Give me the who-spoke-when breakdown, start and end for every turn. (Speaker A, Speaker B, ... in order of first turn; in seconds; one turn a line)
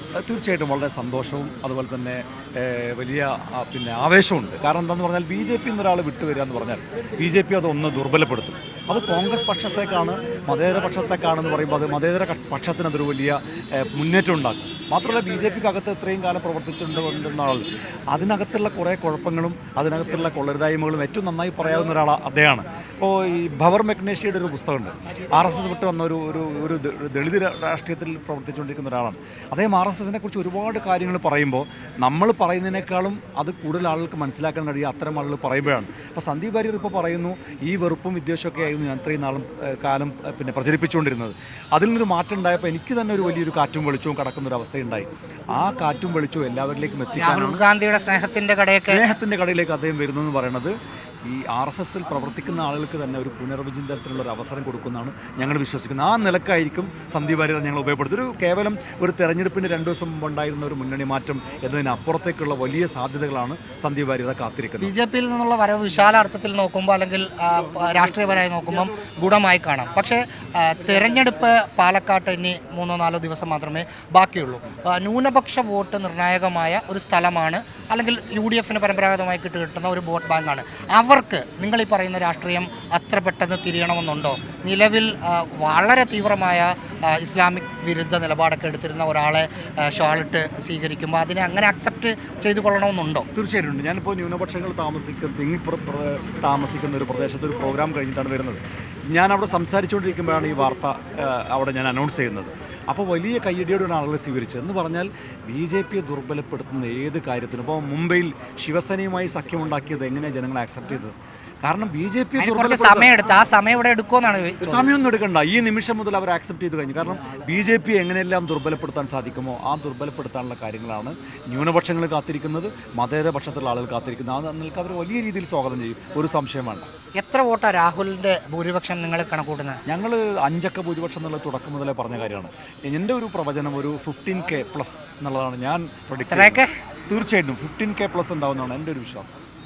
Speaker A: 0.2-47.6
Speaker B: 47.2-49.0
Speaker A: 48.8-64.9
Speaker B: 64.8-93.3
Speaker A: 93.3-111.1
Speaker A: 111.7-113.1
Speaker B: 112.4-114.9
Speaker A: 114.6-126.9
Speaker B: 127.2-129.8
Speaker A: 129.9-139.3
Speaker B: 136.3-136.8